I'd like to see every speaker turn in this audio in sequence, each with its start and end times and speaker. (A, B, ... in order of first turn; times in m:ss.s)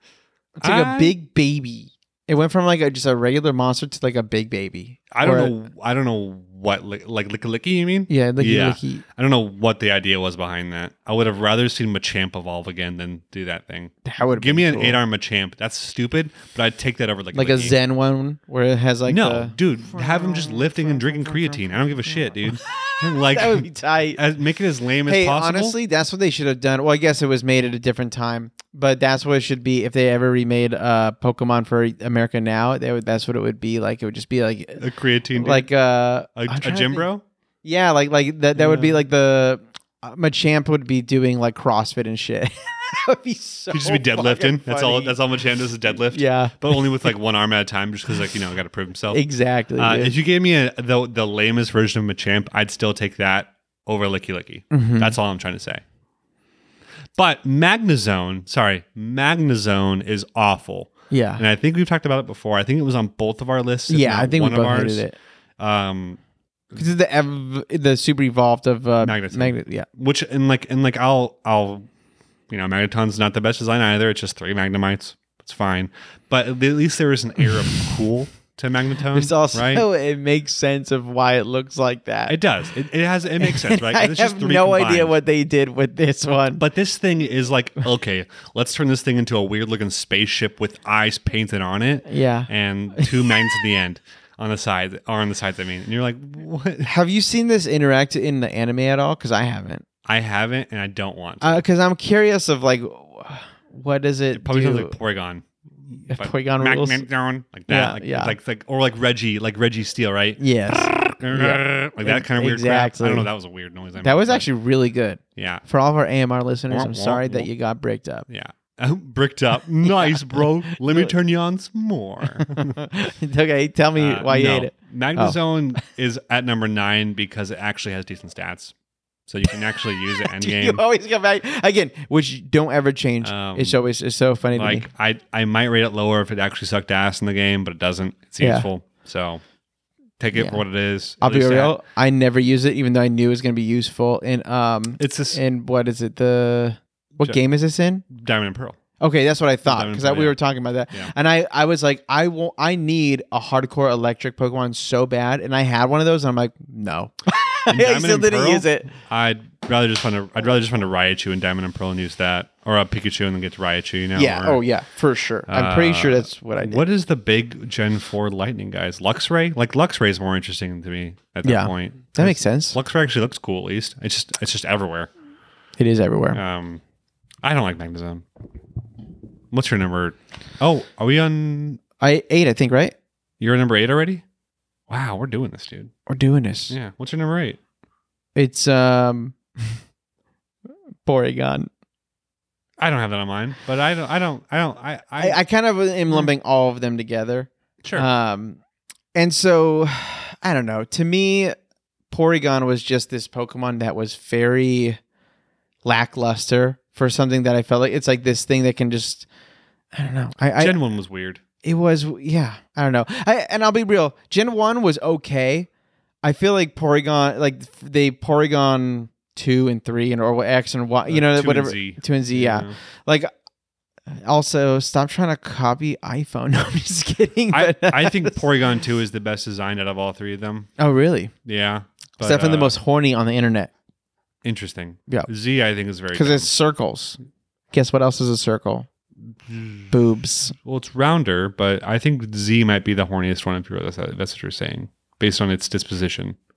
0:00.6-0:05.5 A
0:00.6-0:01.1 B
0:05.1-0:17.8 B
0:08.1-0:09.0 A
0:14.0-0:15.0 A
0:17.3-0:24.2 A
0:19.1-0:25.8 B
0:25.0-0:34.8 A
0:34.8-0:35.7 B
0:35.4-0:37.1 A
0:36.3-0:37.2 B
0:37.6-0:45.2 A
0:38.5-0:39.0 B
0:43.7-0:49.2 B
0:45.9-0:47.1 A
0:49.1-0:50.1 A
0:49.8-0:55.8 B
0:54.7-0:55.2 A
0:57.2-1:05.0 B
1:01.1-1:01.4 A
1:03.9-1:05.1 A
1:05.6-1:06.2 B
1:06.7-1:09.8 A
1:09.0-1:11.8 B
1:12.5-1:19.8 B
1:19.1-1:22.4 A
1:22.3-1:25.2 B
1:23.4-1:26.6 A
1:26.6-1:36.9 B
1:32.0-1:33.4 A
1:36.8-1:39.8 A
1:40.0-1:41.6 B
1:41.4-1:44.9 A
1:44.3-1:54.5 B
1:46.1-1:47.0 A
1:47.7-1:48.4 A
1:50.4-1:53.3 A
1:54.0-1:58.2 A
1:55.4-1:55.6 B
1:56.7-1:57.5 B
1:58.3-2:02.8 B
1:59.8-2:01.1 A
2:02.3-2:05.4 A
2:04.0-2:08.7 B
2:09.3-2:10.8 B
2:10.0-2:14.9 A
2:13.2-2:13.8 B
2:14.5-2:19.4 B
2:18.4-2:18.6 A
2:20.2-2:21.8 B
2:20.3-2:20.6 A
2:21.2-2:28.0 A
2:25.0-2:25.4 B
2:28.1-2:28.8 B
2:29.0-2:38.9 A
2:29.6-2:30.4 B
2:37.7-2:44.6 B
2:44.2-2:46.8 A
2:45.5-2:55.1 B
2:51.4-2:52.8 A
2:55.8-2:56.4 A
2:56.3-2:56.8 B
2:57.4-2:58.2 B
2:59.5-3:01.8 B
3:02.0-3:02.9 A
3:03.4-3:04.2 B
3:04.9-3:05.9 B
3:06.1-3:06.7 A
3:06.7-3:07.6 B
3:08.3-3:09.8 A
3:11.0-3:11.7 A
3:12.8-3:15.4 B
3:15.2-3:18.6 A
3:17.8-3:18.1 B
3:19.1-3:21.5 A
3:22.1-3:25.0 A
3:25.8-3:29.3 A
3:29.9-3:30.8 A
3:30.6-3:31.4 B
3:31.6-3:35.7 A
3:36.2-3:43.3 A
3:41.1-3:42.8 B
3:44.1-3:48.4 A
3:47.5-3:50.7 B
3:50.8-3:51.3 A
3:51.4-3:52.8 B
3:52.2-3:53.7 A
3:54.4-3:56.5 B
3:56.1-3:57.2 A
3:57.7-3:58.9 A
3:59.4-3:59.9 B
3:59.9-4:00.5 A
4:00.6-4:06.4 B